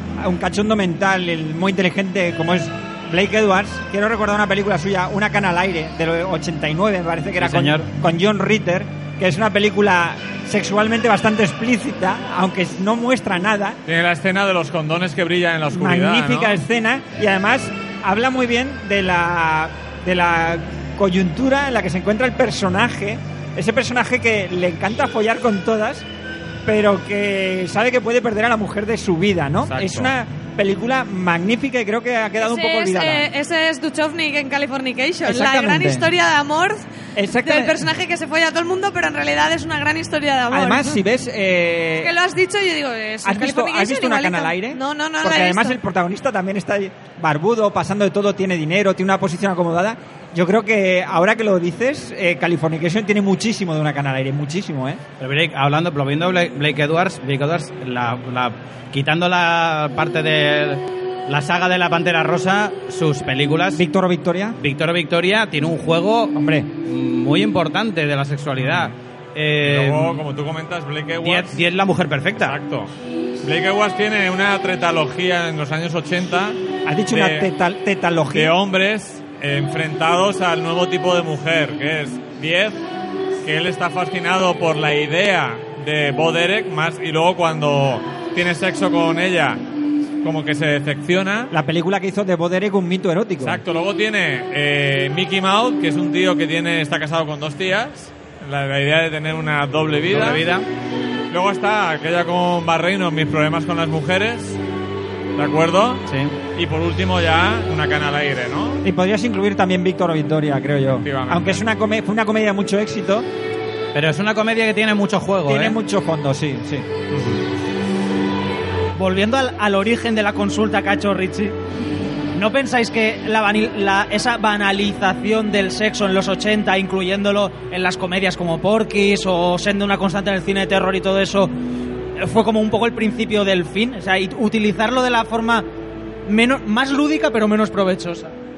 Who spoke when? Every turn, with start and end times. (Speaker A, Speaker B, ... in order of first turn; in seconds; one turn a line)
Speaker A: 0.2-13.8
Speaker B: 7.4-7.9
Speaker C: 13.9-16.6
Speaker A: 15.7-26.1
Speaker A: 26.7-33.3
Speaker C: 29.6-30.1
Speaker D: 32.4-36.9
Speaker A: 35.2-36.1
Speaker A: 37.2-37.8
Speaker D: 37.4-41.0
Speaker A: 40.5-42.1
Speaker D: 42.0-45.8
Speaker A: 43.2-55.0
Speaker B: 55.2-63.8
Speaker A: 63.8-64.6
Speaker B: 64.6-70.2
Speaker A: 66.4-66.7
Speaker C: 69.6-71.6
Speaker B: 71.2-72.6
Speaker C: 72.4-72.9
Speaker C: 73.4-77.5
Speaker A: 76.9-78.5
Speaker C: 78.3-82.8
Speaker C: 83.4-89.6
Speaker C: 90.2-91.5
Speaker A: 91.5-93.6
Speaker C: 93.4-100.5
Speaker B: 100.1-100.7
Speaker C: 101.3-104.6
Speaker C: 105.4-108.8
Speaker B: 106.1-106.3
Speaker A: 108.8-113.3
Speaker C: 111.0-111.6
Speaker B: 113.9-115.8
Speaker A: 115.5-116.9
Speaker C: 117.1-117.4
Speaker E: 119.0-121.5
Speaker E: 122.4-131.5
Speaker E: 132.2-135.7
Speaker E: 136.3-138.3